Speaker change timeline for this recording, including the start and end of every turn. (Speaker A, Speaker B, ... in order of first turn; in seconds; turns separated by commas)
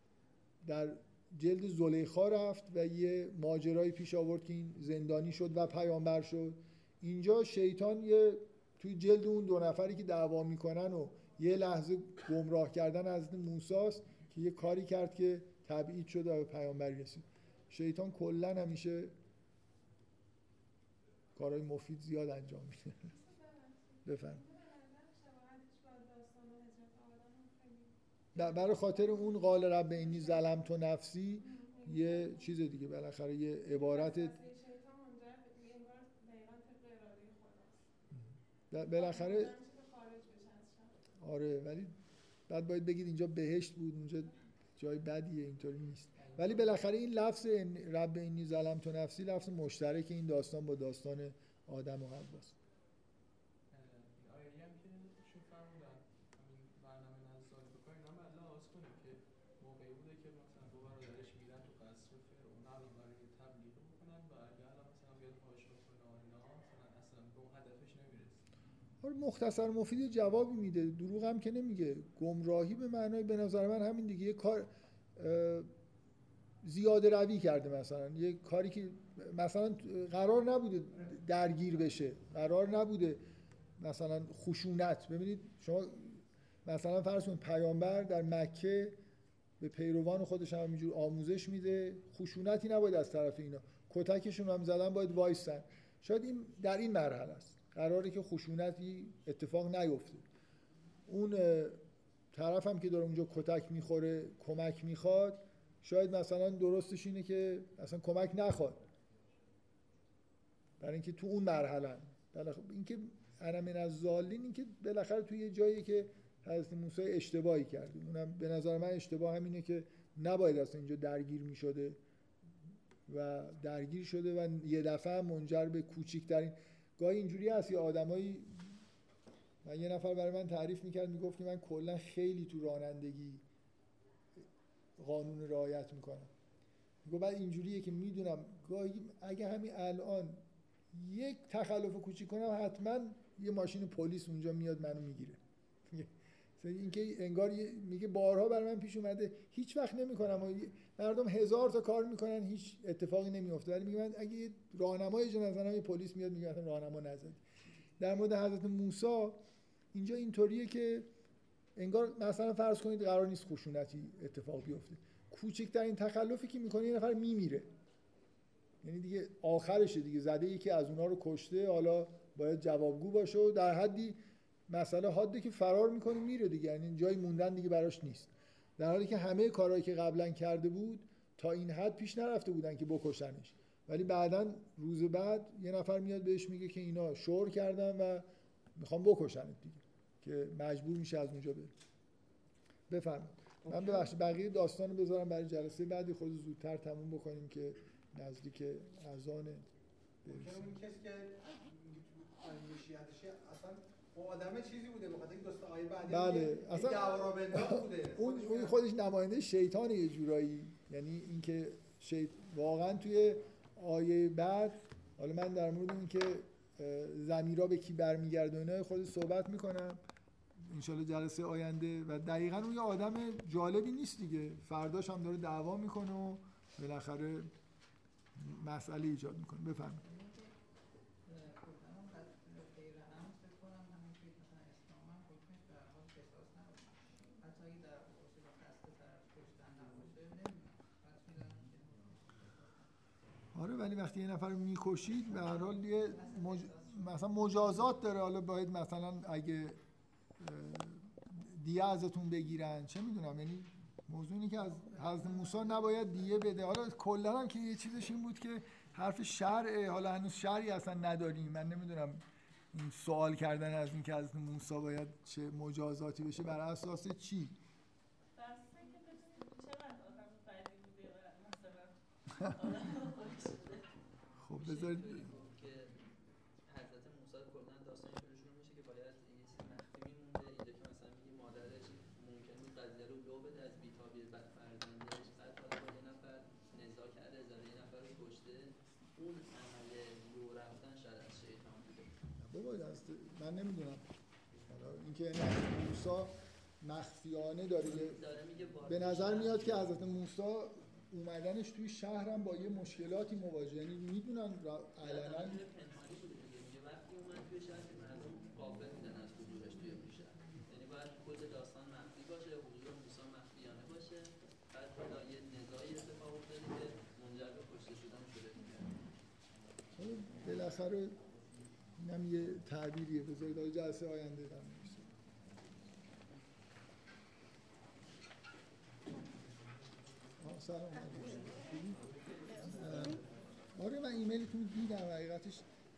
Speaker A: 0.6-19.1, Speaker A: 21.4-23.1, Speaker B: 23.1-30.1, Speaker A: 24.0-24.4, Speaker A: 28.3-34.4, Speaker B: 31.7-32.4, Speaker B: 33.7-37.8, Speaker A: 38.7-39.5, Speaker B: 38.9-40.9, Speaker A: 41.2-41.9, Speaker A: 42.5-52.6, Speaker C: 46.2-46.5, Speaker C: 53.7-68.4, Speaker A: 69.0-75.7, Speaker A: 76.6-83.2, Speaker A: 83.8-89.0, Speaker A: 89.6-100.2, Speaker A: 101.1-101.8, Speaker A: 102.3-108.8, Speaker A: 110.8-122.0, Speaker A: 123.1-128.7, Speaker A: 129.6-133.4, Speaker A: 135.0-136.3, Speaker A: 137.0-157.4, Speaker A: 158.0-159.4, Speaker A: 159.9-161.1, Speaker A: 161.8-167.7, Speaker A: 168.8-191.7, Speaker A: 192.9-199.6, Speaker A: 200.2-200.7, Speaker D: 200.3-208.8, Speaker A: 206.1-220.0, Speaker A: 220.6-227.5, Speaker A: 228.4-230.0, Speaker E: 230.0-230.6, Speaker E: 231.2-242.9, Speaker A: 243.5-249.8, Speaker E: 245.3-247.9, Speaker A: 250.4-267.5, Speaker E: 254.8-256.8, Speaker B: 268.3-273.9, Speaker A: 274.4-275.3, Speaker F: 274.5-276.0, Speaker F: 276.6-292.2, Speaker A: 292.4-294.0, Speaker A: 294.7-298.2, Speaker F: 297.8-300.2, Speaker A: 298.9-305.6, Speaker F: 305.0-319.0, Speaker A: 319.9-321.2, Speaker A: 322.0-325.1, Speaker A: 330.4-332.1, Speaker A: 332.6-335.6